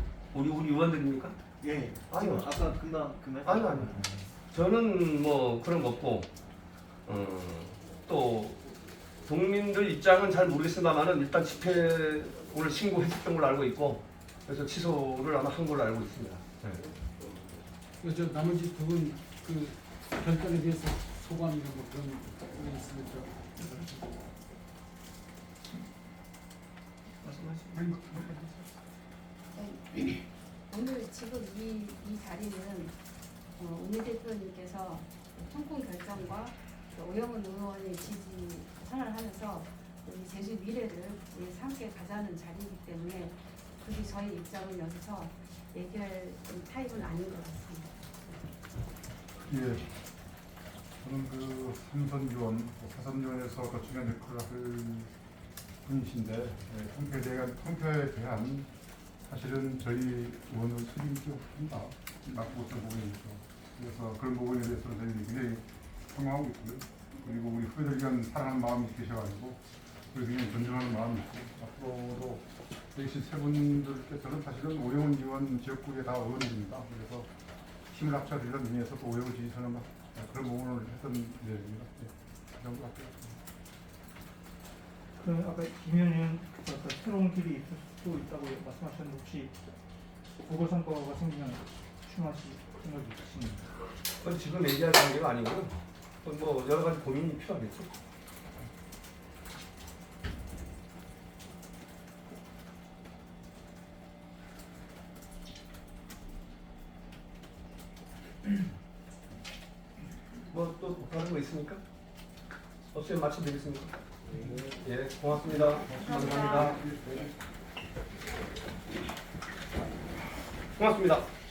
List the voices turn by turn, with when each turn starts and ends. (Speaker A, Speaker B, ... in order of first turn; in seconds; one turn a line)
Speaker A: 0.3-1.4
Speaker B: 1.6-4.3
Speaker A: 2.1-2.5
Speaker A: 3.4-3.9
Speaker A: 4.5-6.3
Speaker A: 7.0-8.7
Speaker A: 9.2-16.8
Speaker C: 18.0-23.9
Speaker D: 27.2-28.6
Speaker E: 29.5-32.9
Speaker E: 33.5-47.9
Speaker F: 49.5-50.0
Speaker F: 51.0-55.1
Speaker F: 55.8-58.7
Speaker F: 59.2-77.3
Speaker F: 77.9-83.4
Speaker D: 85.2-89.5
Speaker D: 90.4-93.7
Speaker A: 94.2-97.9
Speaker A: 110.5-111.8
Speaker A: 112.9-114.0
Speaker A: 114.6-116.9
Speaker E: 116.0-116.7
Speaker A: 120.7-121.2